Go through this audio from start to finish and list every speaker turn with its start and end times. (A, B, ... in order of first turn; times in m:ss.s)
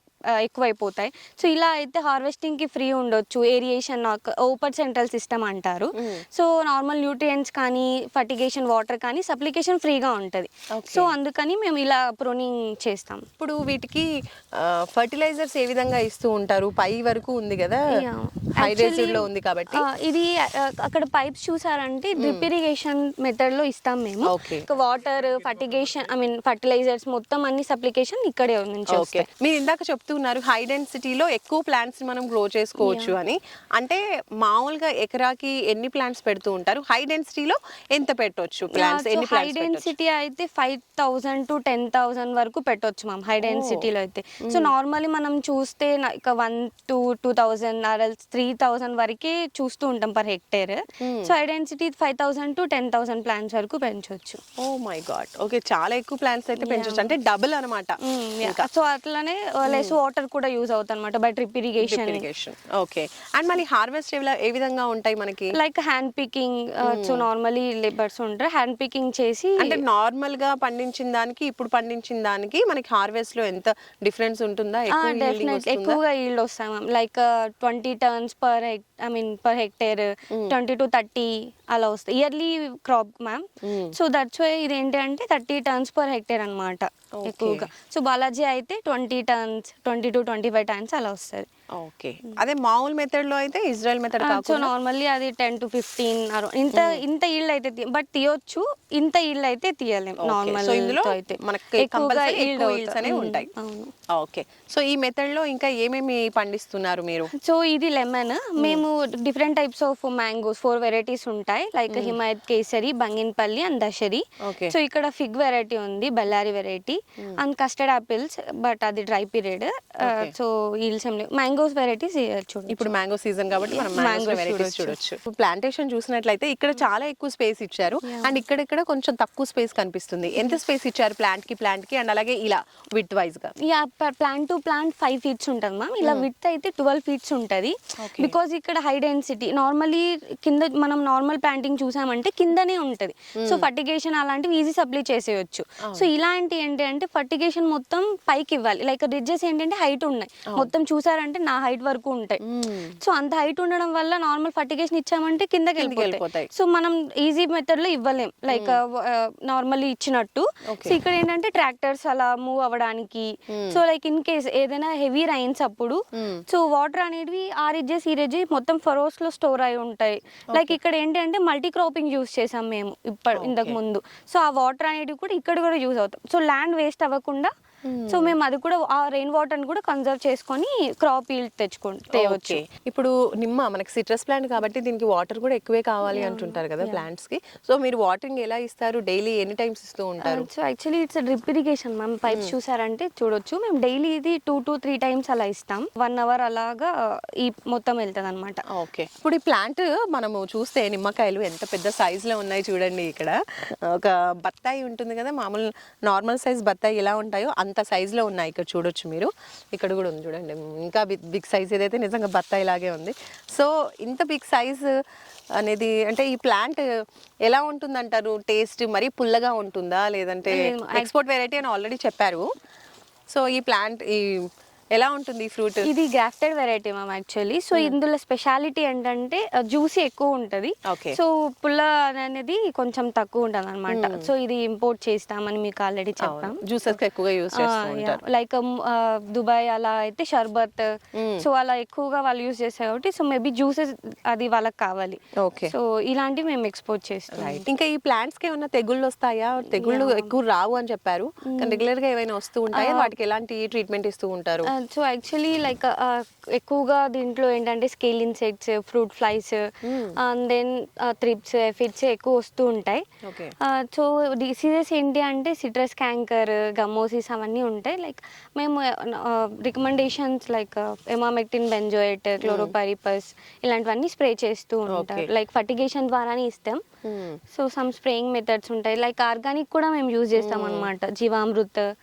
0:00.4-0:13.3 A
0:06.0-0:06.2 B
0:10.8-0:11.1 B
0:13.4-0:17.9 B
0:17.9-0:29.3 A
0:18.6-0:19.8 B
0:22.2-0:22.5 B
0:24.3-0:24.7 B
0:28.9-0:39.9 B
0:32.8-0:33.2 A
0:38.7-0:54.4 A
0:43.4-0:43.9 B
0:44.4-0:44.7 B
0:51.0-0:51.3 B
0:54.6-0:58.7 B
0:56.6-0:57.1 A
0:58.0-1:02.2 A
0:59.7-1:00.0 B
1:01.8-1:05.5 B
1:05.5-1:09.8 A
1:06.9-1:07.3 B
1:09.6-1:16.0 B
1:14.9-1:31.5 A
1:23.6-1:24.0 B
1:27.2-1:27.7 B
1:31.8-1:34.7 B
1:34.2-1:43.9 A
1:36.7-1:37.0 B
1:40.2-1:43.5 B
1:44.1-1:47.3 B
1:47.4-2:02.9 A
1:48.6-1:48.8 B
1:51.9-1:52.2 B
1:54.4-1:54.8 B
2:00.0-2:00.3 B
2:02.7-2:13.5 B
2:03.5-2:05.0 A
2:08.0-2:08.4 A
2:13.6-2:32.4 A
2:18.0-2:18.3 B
2:23.4-2:23.7 B
2:32.4-2:33.0 B
2:33.0-2:57.5 A
2:35.8-2:36.5 B
2:38.5-2:38.8 B
2:40.7-2:41.0 B
2:43.5-2:43.8 B
2:46.2-2:46.4 B
2:53.4-2:53.8 B
2:57.8-2:58.3 B
2:58.1-3:02.6 A
3:02.1-3:10.5 B
3:06.1-3:07.0 A
3:10.2-3:16.9 A
3:17.4-3:18.6 A
3:18.7-3:34.9 B
3:35.6-3:36.8 B
3:37.5-3:42.5 B
3:40.5-3:41.1 A
3:43.3-3:45.9 B
3:45.8-3:57.0 A
3:50.9-3:51.2 B
3:53.9-3:54.3 B
3:56.2-3:58.2 B
3:57.5-4:07.6 A
4:01.2-4:01.5 B
4:05.4-4:05.7 B
4:07.3-4:14.7 B
4:09.8-4:10.3 A
4:11.4-4:11.8 A
4:12.7-4:13.1 A
4:14.7-4:19.6 A
4:19.8-4:20.1 B
4:20.2-4:23.0 A
4:23.2-4:23.5 B
4:23.6-4:36.8 A
4:32.4-4:32.7 B
4:34.9-4:35.3 B
4:37.0-4:37.4 B
4:37.5-4:41.9 A
4:40.4-4:40.9 B